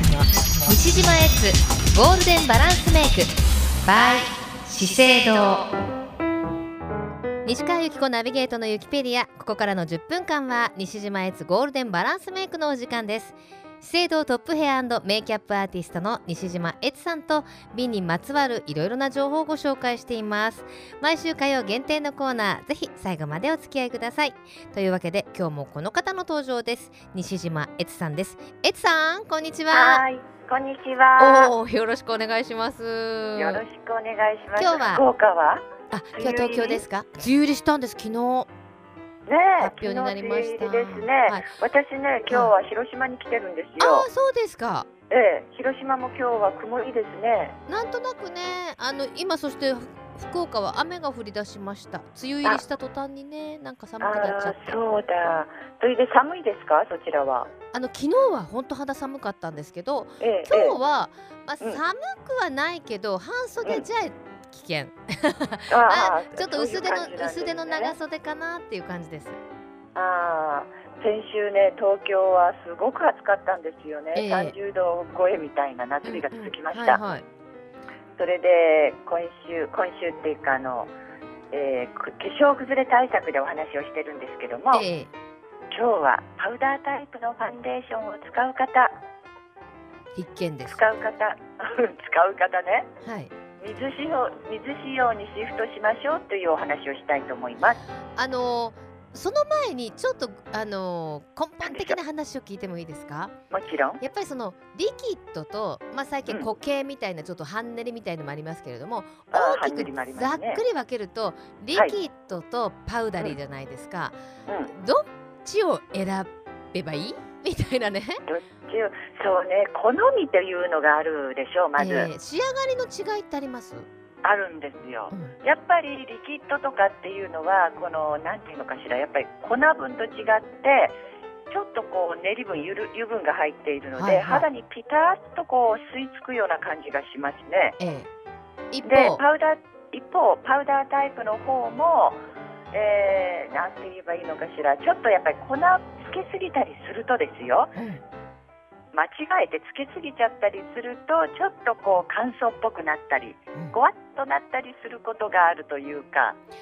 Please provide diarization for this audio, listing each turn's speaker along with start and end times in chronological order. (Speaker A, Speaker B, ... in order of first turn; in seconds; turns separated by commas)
Speaker A: 0.6-3.3, Speaker A: 3.8-5.7, Speaker A: 7.5-30.0, Speaker B: 29.7-31.5, Speaker A: 31.2-33.6, Speaker B: 33.4-36.8, Speaker A: 34.6-35.0, Speaker A: 35.9-38.5, Speaker B: 39.3-44.1, Speaker A: 39.6-41.5, Speaker A: 43.8-44.9, Speaker B: 45.1-47.6, Speaker A: 47.7-54.8, Speaker B: 54.0-57.5, Speaker A: 57.7-69.4, Speaker B: 60.2-60.8, Speaker B: 65.7-68.0, Speaker B: 70.0-77.0, Speaker A: 74.1-74.5, Speaker A: 76.0-77.2, Speaker B: 78.2-80.9, Speaker B: 81.5-84.8, Speaker A: 84.7-85.1, Speaker B: 85.7-89.0, Speaker A: 90.2-90.8, Speaker B: 90.7-92.9, Speaker A: 93.0-93.3, Speaker B: 93.6-97.8, Speaker A: 98.2-103.3, Speaker B: 101.6-102.0, Speaker B: 103.5-104.0, Speaker A: 104.0-114.2, Speaker B: 109.3-110.6, Speaker B: 114.5-114.7, Speaker A: 114.7-118.2, Speaker B: 118.3-122.1, Speaker A: 121.8-123.9, Speaker B: 124.2-131.0, Speaker B: 131.5-137.8, Speaker A: 134.0-134.5, Speaker A: 137.8-138.1, Speaker A: 138.7-139.2, Speaker B: 138.8-142.2, Speaker B: 142.7-147.7, Speaker A: 147.8-148.0, Speaker B: 148.9-156.4